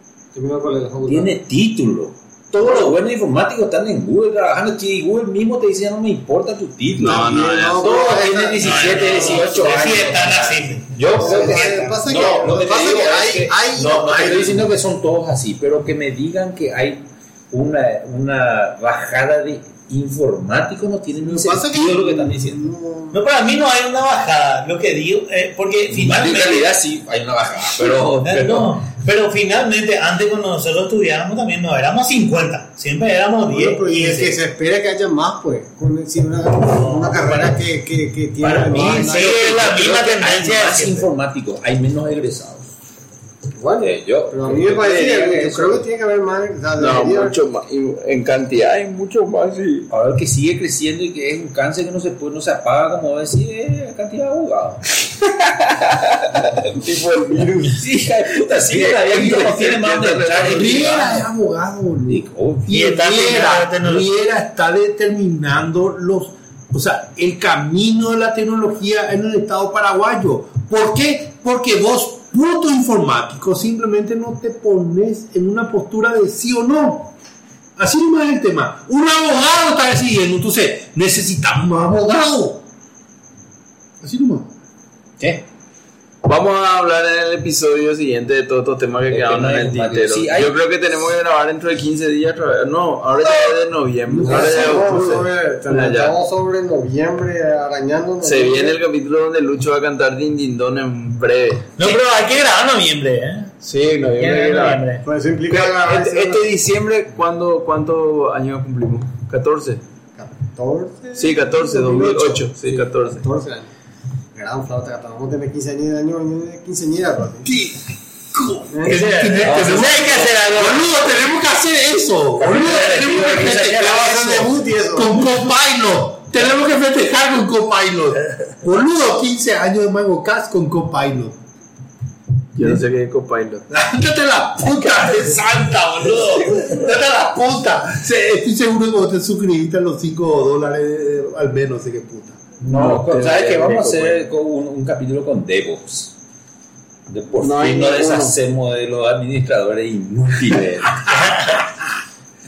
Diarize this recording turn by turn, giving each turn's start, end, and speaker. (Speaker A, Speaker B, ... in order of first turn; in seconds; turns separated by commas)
Speaker A: 0.3-1.4, Speaker B: 1.0-22.7, Speaker A: 2.5-2.9, Speaker C: 7.0-8.0, Speaker A: 7.0-9.9, Speaker D: 8.6-12.3, Speaker A: 11.1-14.7, Speaker A: 21.2-23.2, Speaker D: 23.1-26.7, Speaker B: 25.9-28.9, Speaker D: 27.8-34.3, Speaker A: 33.5-39.3, Speaker D: 36.6-37.6, Speaker B: 38.4-42.7, Speaker D: 38.5-41.1, Speaker A: 43.6-47.4, Speaker B: 43.8-45.9, Speaker C: 46.8-49.9, Speaker B: 49.9-54.8, Speaker C: 55.2-57.8, Speaker B: 57.6-61.2, Speaker C: 58.6-61.1, Speaker E: 60.5-77.1, Speaker B: 62.1-62.8, Speaker D: 62.7-64.1, Speaker E: 77.8-82.6, Speaker E: 84.0-84.5, Speaker C: 86.2-96.1, Speaker B: 89.1-90.5, Speaker E: 94.1-95.2, Speaker A: 94.2-98.8, Speaker C: 98.2-101.8, Speaker D: 101.8-105.0, Speaker C: 103.6-104.8, Speaker A: 105.0-106.5, Speaker C: 105.5-109.8, Speaker A: 110.2-113.7, Speaker C: 111.1-113.2, Speaker A: 114.3-117.5, Speaker E: 117.4-131.4, Speaker A: 118.7-119.0, Speaker D: 118.9-120.9, Speaker B: 119.4-120.3, Speaker B: 122.4-123.8, Speaker D: 122.6-123.7, Speaker A: 123.5-125.3, Speaker C: 132.5-133.6, Speaker E: 133.7-142.5, Speaker C: 142.6-144.2, Speaker B: 142.6-146.1, Speaker B: 147.1-151.7, Speaker C: 147.4-148.3